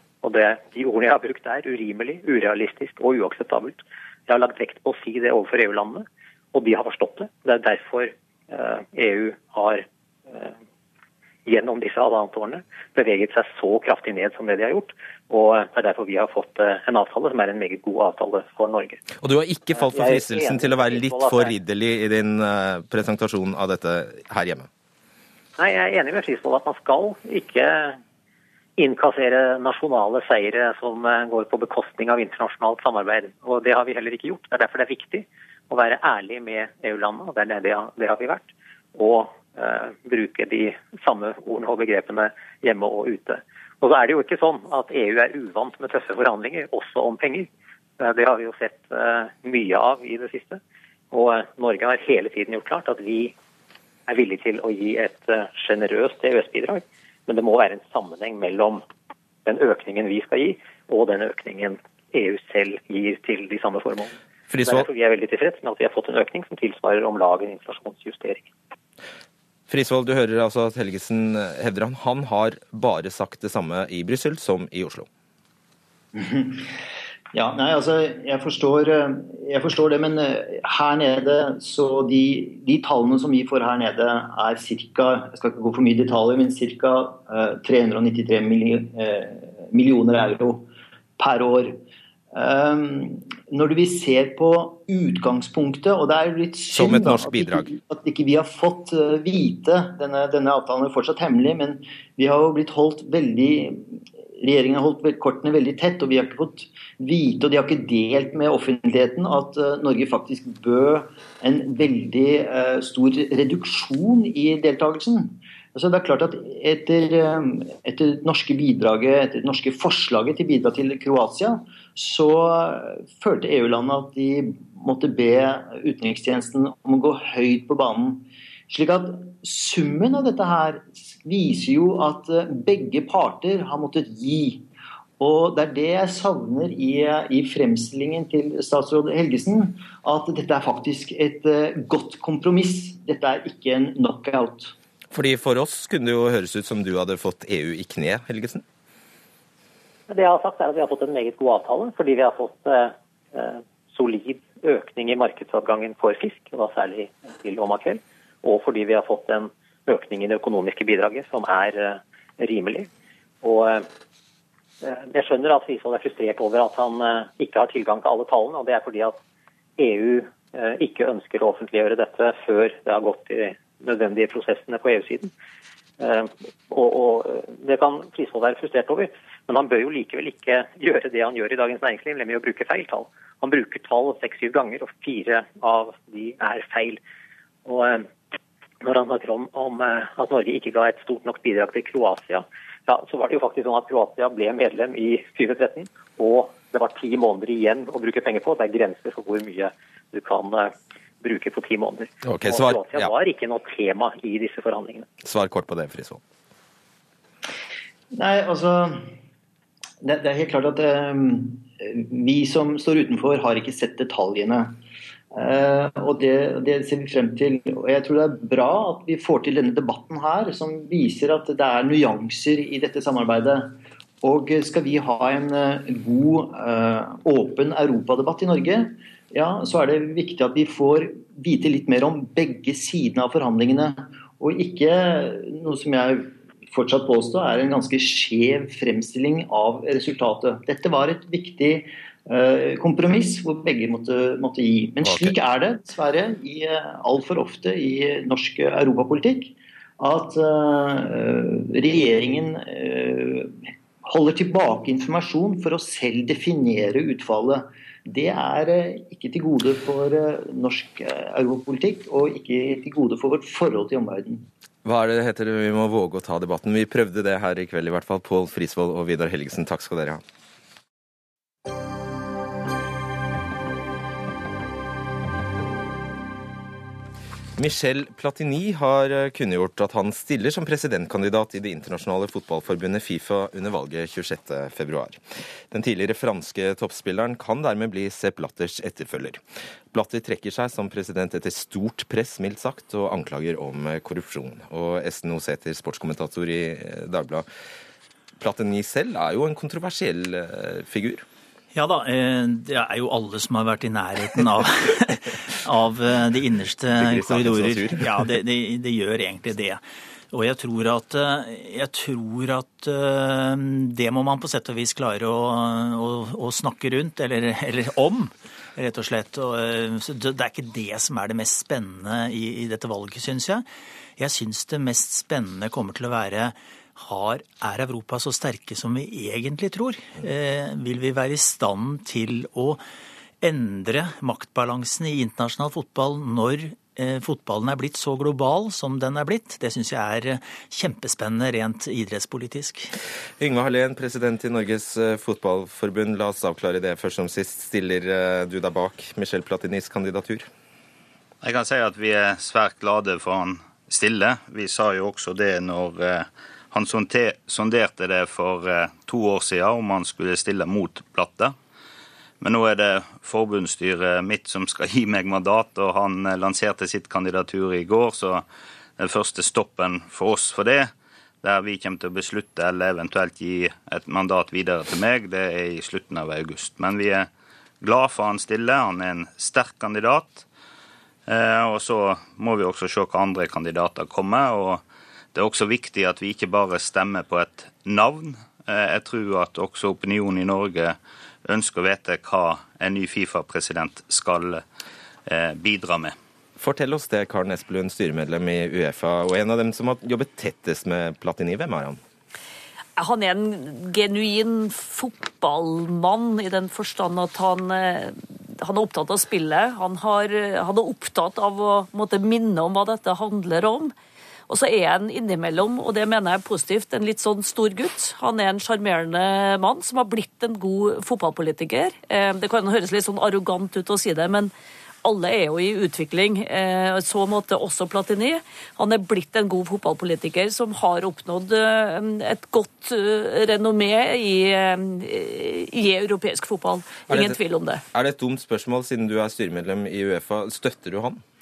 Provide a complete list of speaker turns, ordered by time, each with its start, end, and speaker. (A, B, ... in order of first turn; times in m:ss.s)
0:00.2-0:10.5 A
0:11.4-0:19.0 A
0:19.2-0:24.7 B
0:19.7-0:21.6 A
0:25.6-0:28.0 A
0:28.8-0:47.5 A
0:48.0-0:50.6 A
0:51.1-0:53.3 A
0:54.1-0:58.8 A
0:59.4-1:08.5 A
1:04.5-1:04.9 B
1:09.7-1:15.1 B
1:16.1-1:16.6 C
1:17.3-1:30.7 C
1:31.2-1:31.8 C
1:32.3-2:14.6 C
1:36.7-1:37.7 B
2:15.2-2:24.7 C
2:25.1-2:28.6 B
2:30.1-2:42.9 A
2:43.4-2:43.9 A
2:44.8-2:49.2 A
2:49.8-2:55.3 A
2:56.0-3:07.0 A
3:07.6-3:08.1 A
3:08.8-3:25.1 A
3:22.2-3:23.1 B
3:25.2-3:26.2 B
3:28.1-3:29.0 C
3:30.0-3:34.8 C
3:35.3-4:24.5 C
4:05.0-4:05.4 B
4:24.8-4:30.2 B
4:37.6-4:57.4 B
4:58.4-5:01.2 B
5:01.7-5:09.8 D
5:06.9-5:08.2 B
5:10.3-5:23.7 D
5:24.2-5:32.8 D
5:33.4-5:42.9 D
5:43.4-5:50.5 B
5:51.4-6:01.5 E
6:02.4-6:08.4 E
6:09.0-6:10.9 E
6:11.4-6:17.3 E
6:17.8-6:20.4 E
6:21.3-6:34.6 E
6:35.3-6:36.1 E
6:36.6-6:42.0 B
6:43.0-6:53.9 F
6:54.5-7:04.5 F
7:05.0-7:17.8 F
7:17.1-7:17.4 B
7:17.9-7:21.2 B